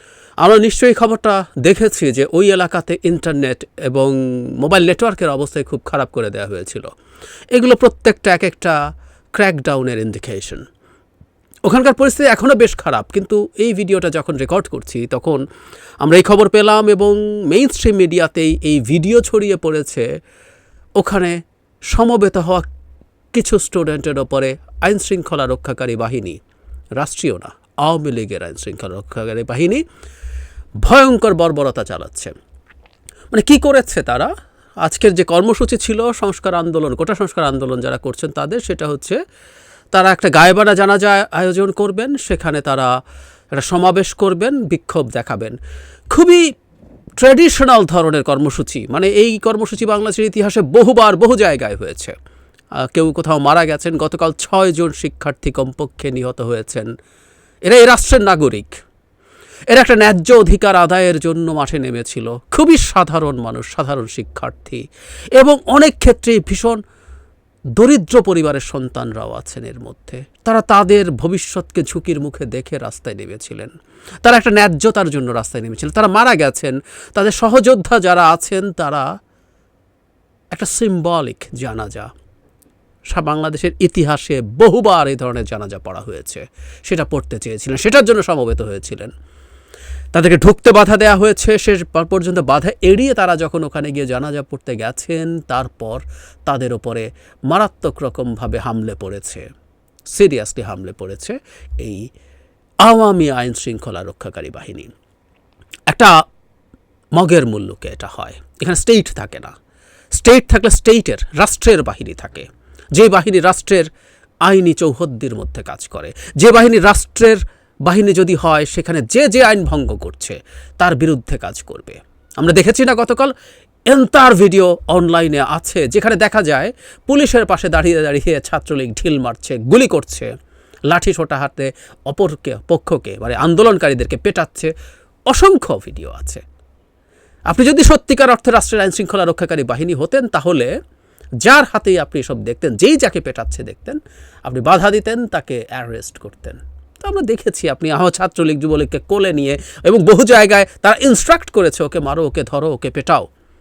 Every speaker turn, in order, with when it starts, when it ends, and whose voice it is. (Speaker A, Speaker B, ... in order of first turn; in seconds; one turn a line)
Speaker A: 0.4-6.9
Speaker A: 7.5-8.8
Speaker A: 9.3-10.6
Speaker A: 11.7-15.4
Speaker A: 16.0-20.1
Speaker A: 21.0-21.4
Speaker A: 21.9-22.7
Speaker A: 23.3-26.4
Speaker A: 27.0-29.8
Speaker A: 30.8-32.3
Speaker A: 33.3-34.3
Speaker A: 34.8-39.2
Speaker A: 39.9-42.9
Speaker A: 43.5-45.6
Speaker A: 46.1-46.5
Speaker A: 47.2-52.1
Speaker A: 52.8-56.9
Speaker A: 57.7-58.8
Speaker A: 59.7-64.8
Speaker A: 65.3-66.8
Speaker A: 67.8-73.7
Speaker A: 74.2-79.1
Speaker A: 80.5-82.1
Speaker A: 83.1-89.1
Speaker A: 90.1-99.5
Speaker A: 100.1-102.1
Speaker A: 102.8-104.9
Speaker A: 107.2-109.5
Speaker A: 110.1-113.9
Speaker A: 114.5-123.3
Speaker A: 123.9-130.3
Speaker A: 130.9-134.7
Speaker A: 135.3-136.4
Speaker A: 137.5-140.7
Speaker A: 141.4-153.3